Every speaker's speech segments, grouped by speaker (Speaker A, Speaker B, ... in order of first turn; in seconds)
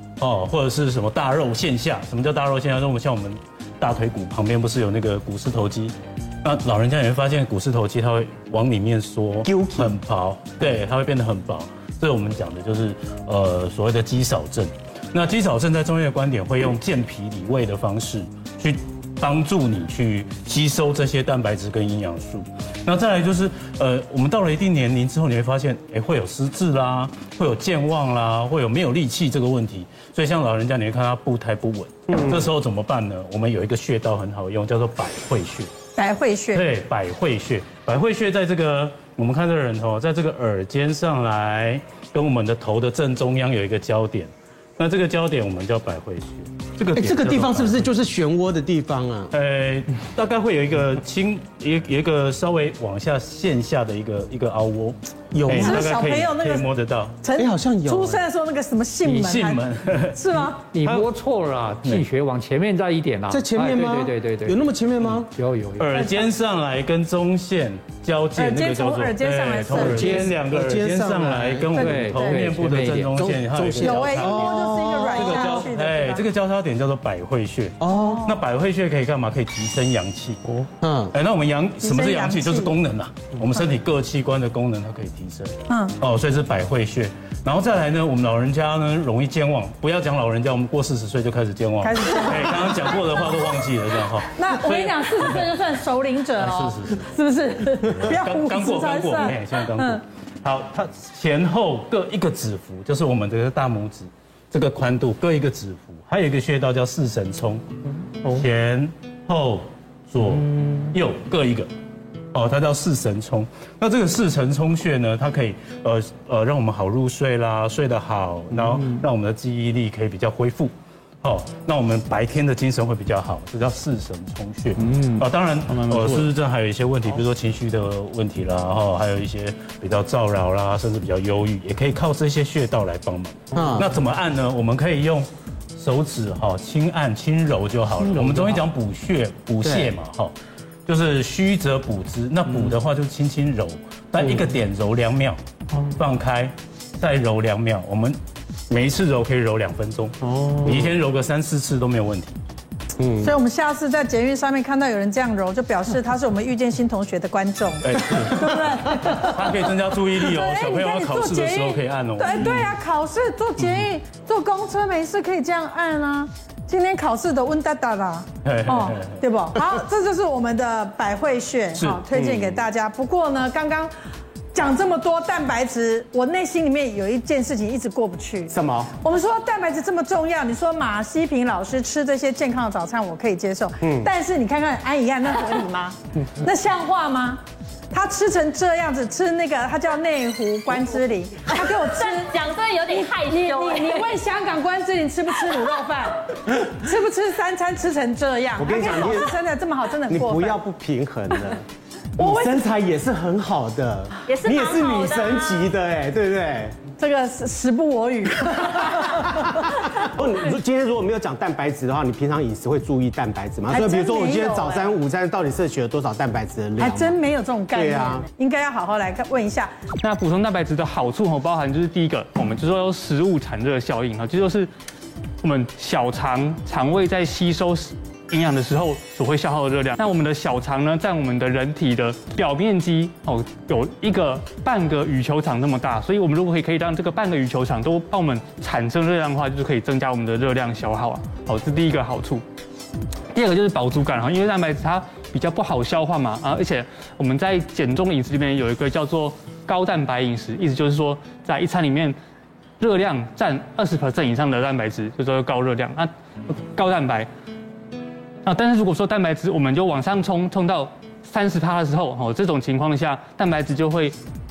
Speaker A: 0.2-35.7, 36.5-47.9, 49.3-57.2, 59.0-61.1, 65.8-80.4, 81.1-95.5, 96.4-97.1, 97.9-107.6, 108.2-111.7, 112.3-140.3, 140.9-145.4, 145.9-148.2, 148.7-152.4, 157.8-162.7, 168.4-169.2, 171.8-172.0
Speaker B: 9.4-9.9, 47.0-49.3, 55.3-56.0, 57.4-58.2, 63.3-65.4, 69.8-71.9, 72.5-75.3, 77.8-78.3, 80.8-81.2, 133.6-133.9, 138.1-138.5, 139.6-139.9, 150.2-150.9, 153.0-153.4, 172.1-172.7, 178.5-179.0, 183.8-184.1, 198.6-199.4, 200.1-201.6, 202.2-206.9, 209.7-217.2, 217.7-218.3
Speaker C: 36.0-36.6, 55.6-56.7, 57.2-59.6, 60.1-60.7, 65.9-66.3, 68.4-70.3, 71.7-72.5, 73.8-76.2, 77.9-78.4, 81.8-82.7, 85.7-86.0, 91.8-92.8, 94.3-100.0, 153.2-159.6, 160.3-173.9, 174.5-192.3, 192.9-200.6, 202.2-202.7, 206.9-210.0, 213.7-214.8, 216.8-219.7
Speaker D: 60.7-64.6, 65.3-65.9, 71.8-73.3
Speaker E: 124.9-125.2, 125.9-126.2, 220.0-224.7, 225.4-242.4, 243.3-252.2, 252.8-257.3, 258.4-264.2
Speaker F: 191.5-194.1, 204.3-205.7